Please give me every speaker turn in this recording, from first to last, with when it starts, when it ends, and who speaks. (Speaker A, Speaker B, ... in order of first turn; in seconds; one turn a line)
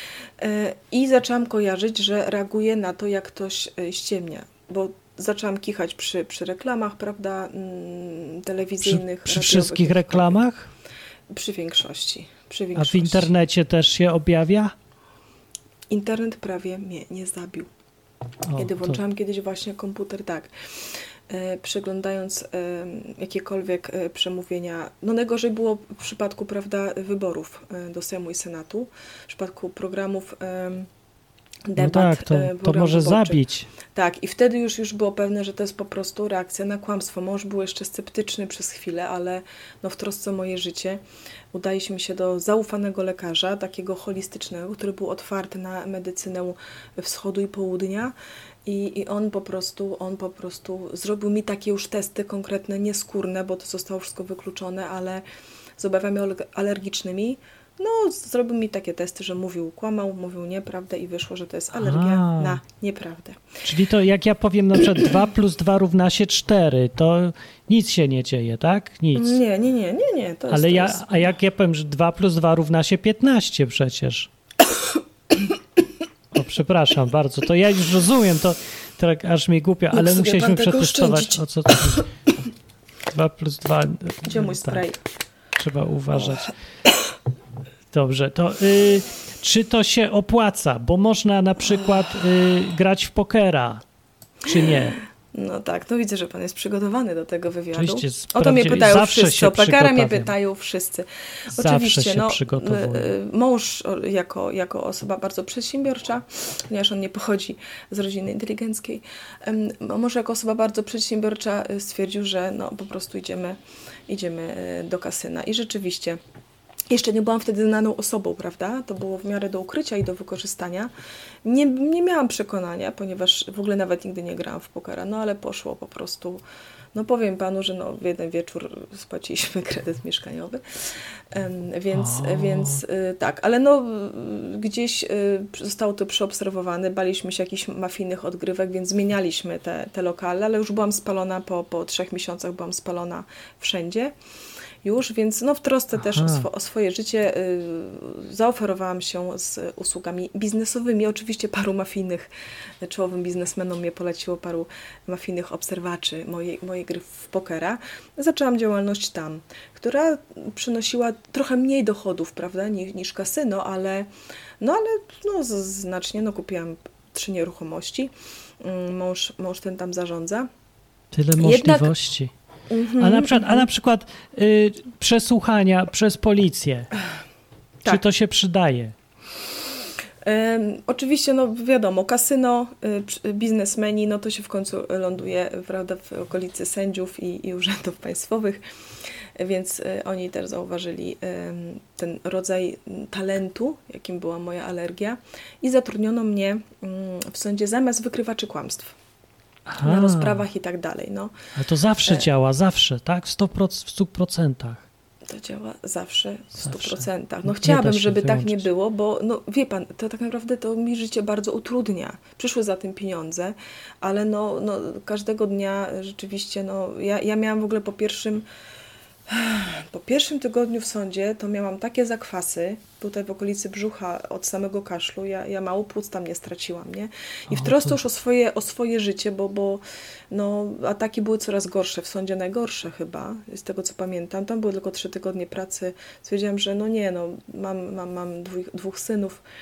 Speaker A: 0.4-10.4
Speaker B: 8.8-10.7
Speaker A: 11.3-13.3
Speaker B: 12.7-14.7
Speaker A: 15.9-17.7
Speaker B: 18.5-19.0
Speaker A: 18.6-20.5
Speaker A: 21.3-30.9
Speaker A: 31.7-41.0
Speaker B: 31.8-33.7
Speaker A: 41.5-48.1
Speaker A: 48.6-55.2
Speaker A: 55.8-63.5
Speaker B: 61.7-62.6
Speaker B: 63.6-69.4
Speaker A: 69.1-71.3
Speaker B: 70.5-74.3
Speaker B: 76.3-82.1
Speaker A: 79.9-81.4
Speaker B: 83.1-84.8
Speaker A: 84.2-85.0
Speaker B: 85.6-86.5
Speaker B: 87.9-93.8
Speaker B: 94.4-95.0
Speaker A: 95.3-116.2
Speaker B: 97.7-100.3
Speaker B: 101.5-103.1
Speaker A: 116.9-120.9
Speaker A: 121.4-126.4
Speaker A: 126.9-144.1
Speaker B: 131.9-132.8
Speaker A: 144.8-152.3
Speaker B: 145.9-146.5
Speaker A: 152.8-164.1
Speaker A: 164.6-170.5
Speaker B: 171.1-172.3
Speaker A: 171.4-171.9
Speaker A: 172.7-173.7
Speaker B: 173.0-176.9
Speaker B: 177.8-178.9
Speaker A: 180.2-188.6
Speaker A: 189.4-198.9
Speaker B: 199.7-200.4
Speaker A: 199.8-201.3
Speaker B: 201.5-204.8
Speaker A: 205.3-218.4
Speaker B: 206.6-208.6
Speaker A: 219.3-239.4
Speaker B: 227.5-227.9